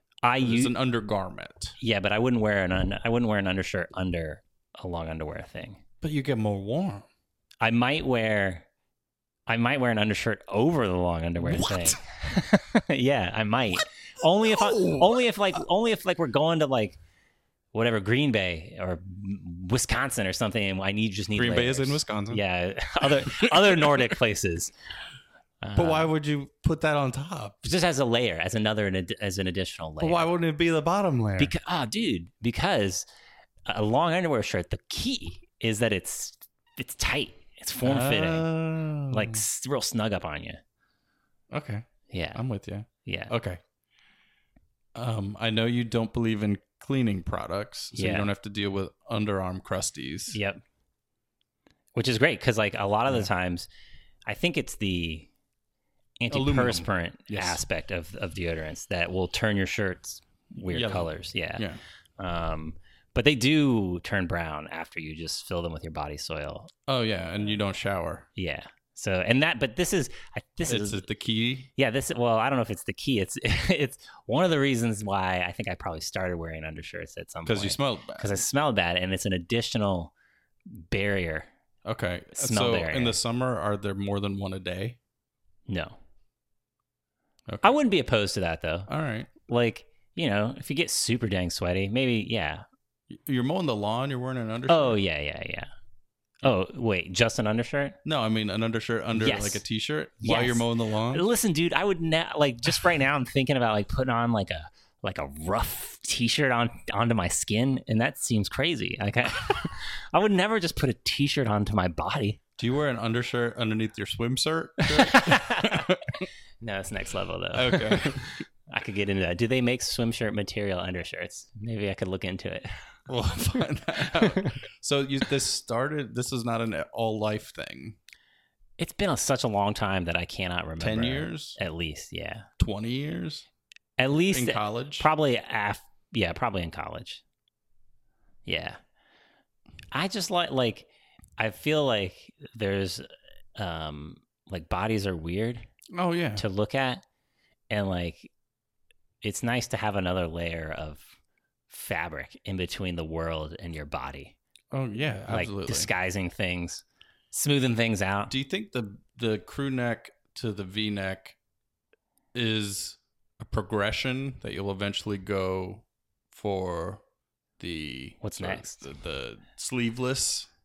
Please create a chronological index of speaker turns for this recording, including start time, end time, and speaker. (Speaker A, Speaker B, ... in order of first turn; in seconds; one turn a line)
Speaker A: 0.2-0.7
Speaker B: 0.4-1.8
Speaker A: 1.8-5.8
Speaker B: 6.0-7.0
Speaker A: 7.6-8.7
Speaker A: 9.5-17.0
Speaker B: 11.4-12.0
Speaker B: 14.4-15.6
Speaker A: 17.7-24.7
Speaker B: 21.3-22.4
Speaker B: 23.2-23.9
Speaker A: 25.6-26.1
Speaker B: 25.7-27.6
Speaker A: 27.6-30.3
Speaker B: 30.0-31.5
Speaker A: 31.4-33.0
Speaker A: 33.6-38.5
Speaker B: 37.8-39.4
Speaker A: 39.1-40.6
Speaker B: 41.5-43.6
Speaker A: 42.1-42.4
Speaker A: 43.0-43.3
Speaker B: 44.9-50.4
Speaker A: 47.9-48.3
Speaker A: 50.3-50.6
Speaker A: 51.9-53.7
Speaker A: 54.2-55.3
Speaker A: 56.2-61.6
Speaker B: 56.3-57.6
Speaker B: 60.7-61.8
Speaker A: 62.2-66.7
Speaker B: 66.9-68.3
Speaker A: 68.3-71.0
Speaker B: 70.7-71.7
Speaker A: 71.8-80.1
Speaker B: 77.5-78.4
Speaker A: 80.7-81.5
Speaker B: 81.8-85.0
Speaker A: 82.3-83.2
Speaker A: 85.7-86.0
Speaker A: 87.6-88.9
Speaker B: 88.9-89.3
Speaker A: 89.5-92.6
Speaker B: 93.1-95.0
Speaker A: 94.7-95.7
Speaker A: 96.4-98.0
Speaker B: 98.0-101.3
Speaker A: 99.2-99.6
Speaker A: 100.2-112.4
Speaker B: 112.6-116.2
Speaker A: 114.8-122.7
Speaker B: 117.5-118.3
Speaker B: 123.1-128.0
Speaker A: 124.2-124.5
Speaker A: 128.8-132.4
Speaker B: 130.8-131.6
Speaker B: 132.6-133.4
Speaker A: 134.0-137.2
Speaker B: 134.3-135.1
Speaker A: 138.4-138.8
Speaker A: 139.9-145.7
Speaker B: 145.9-146.4
Speaker A: 146.4-147.0
Speaker A: 147.7-148.3
Speaker A: 149.2-151.1
Speaker A: 151.7-154.3
Speaker B: 154.7-155.9
Speaker A: 155.3-158.3
Speaker B: 158.3-161.3
Speaker B: 162.3-167.0
Speaker B: 167.6-170.5
Speaker A: 168.2-168.8